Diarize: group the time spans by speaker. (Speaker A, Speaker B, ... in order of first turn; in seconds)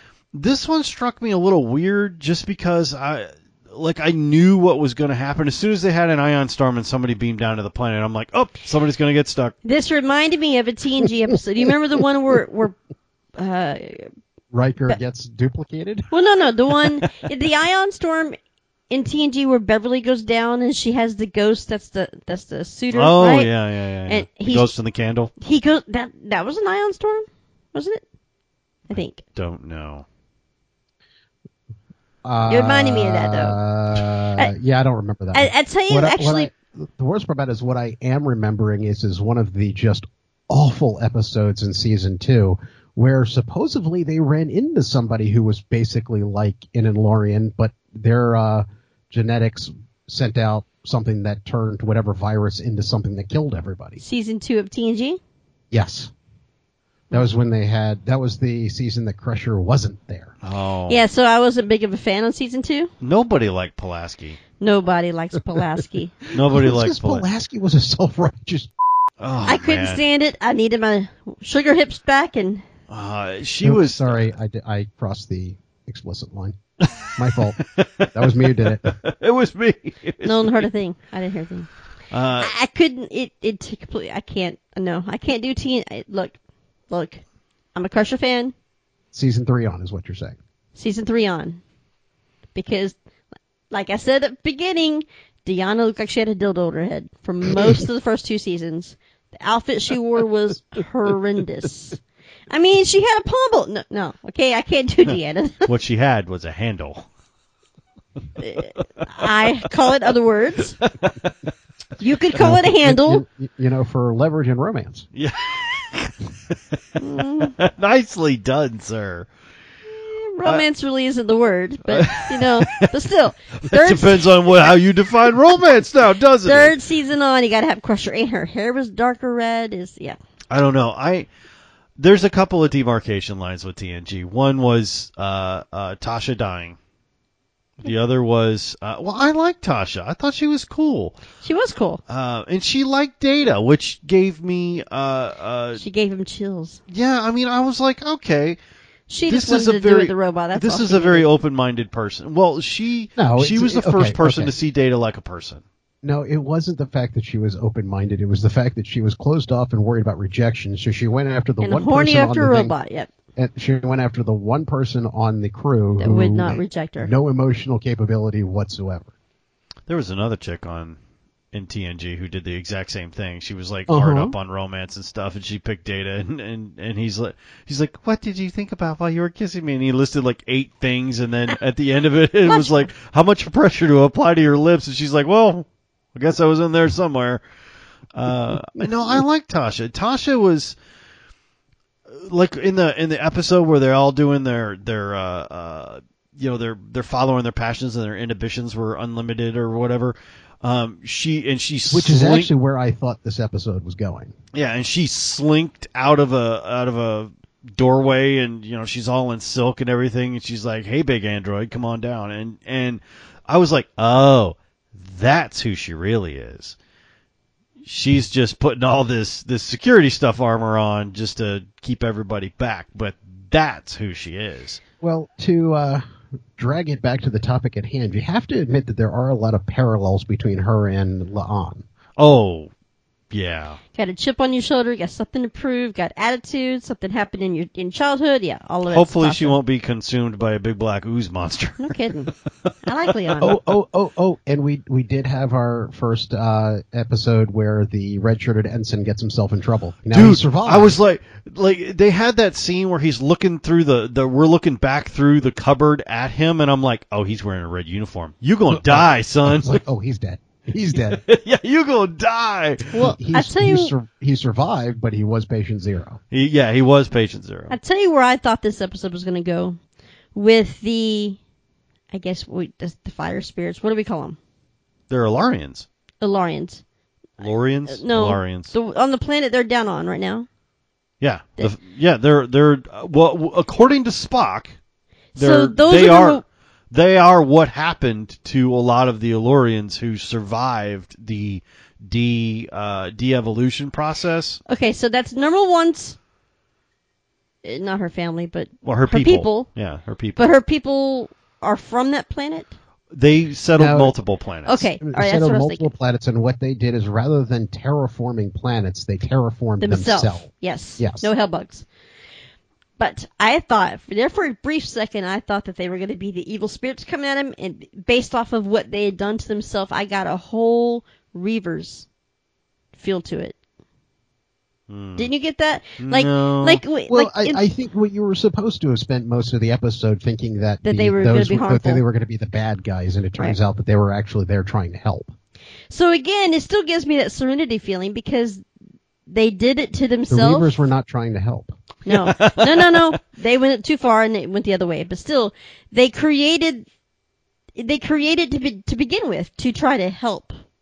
Speaker A: 0.3-9.6, 22.9-25.3, 28.9-30.1, 60.4-61.0, 63.0-64.4, 66.3-67.2, 69.2-70.0, 72.9-74.3, 77.1-80.7, 82.1-82.5, 105.7-107.1, 109.0-109.6, 110.8-111.5, 115.2-119.3, 121.9-122.9, 123.6-126.8, 130.5-131.3, 132.0-136.8, 137.8-141.2, 142.1-145.8, 146.9-148.6, 149.3-155.6, 169.9-171.0, 171.5-187.4, 188.1-190.8, 192.1-202.5, 204.5-216.8, 217.8-224.8, 232.2-232.7, 233.3-233.8, 238.9-241.9, 250.1-259.8, 261.1-263.1, 266.3-267.8, 275.1-275.9, 277.4-278.7, 281.2-284.8, 285.4-294.6, 298.8-300.5, 303.1-304.9, 324.9-325.3, 326.0-326.8, 342.1-343.2
Speaker B: 9.7-12.8, 13.4-14.1, 16.1-18.4, 18.9-23.5, 24.1-24.7, 25.4-28.0, 28.9-29.2, 32.5-33.6, 35.3-36.5, 54.0-55.2, 60.9-62.9, 64.6-66.2, 69.5-72.6, 80.2-81.7, 82.4-86.4, 86.9-87.2, 87.8-88.5, 90.8-91.6, 92.5-93.0, 93.7-102.0, 102.5-105.7, 108.4-110.8, 112.0-113.2, 117.0-117.5, 119.9-124.5, 126.5-130.2, 141.4-142.0, 145.8-146.8, 149.1-151.3, 161.6-163.1, 166.0-167.1, 182.4-182.9, 233.9-239.6, 241.8-242.3, 242.8-243.6, 262.9-263.9, 267.7-269.8, 270.4-271.4, 272.1-274.4, 276.2-276.8, 277.9-280.5, 285.4-286.4, 294.7-296.2, 297.6-299.7, 300.4-302.7, 304.7-305.9, 309.8-311.9, 313.0-322.1, 323.0-323.6, 325.2-327.6, 330.9-332.0, 335.9-338.6, 339.3-340.8, 342.1-346.9, 347.8-350.5
Speaker C: 14.5-16.1, 32.2-54.0, 55.7-56.1, 57.1-60.3, 66.5-68.7, 73.6-76.5, 77.2-79.0, 89.1-90.4, 112.3-115.1, 153.2-154.5, 156.0-162.7, 163.4-169.1, 173.9-174.3, 201.9-204.3, 225.0-226.0, 226.6-231.8, 243.4-251.0, 258.7-261.2, 263.0-266.2, 303.8-304.1, 305.0-311.3, 327.1-335.3, 340.3-341.7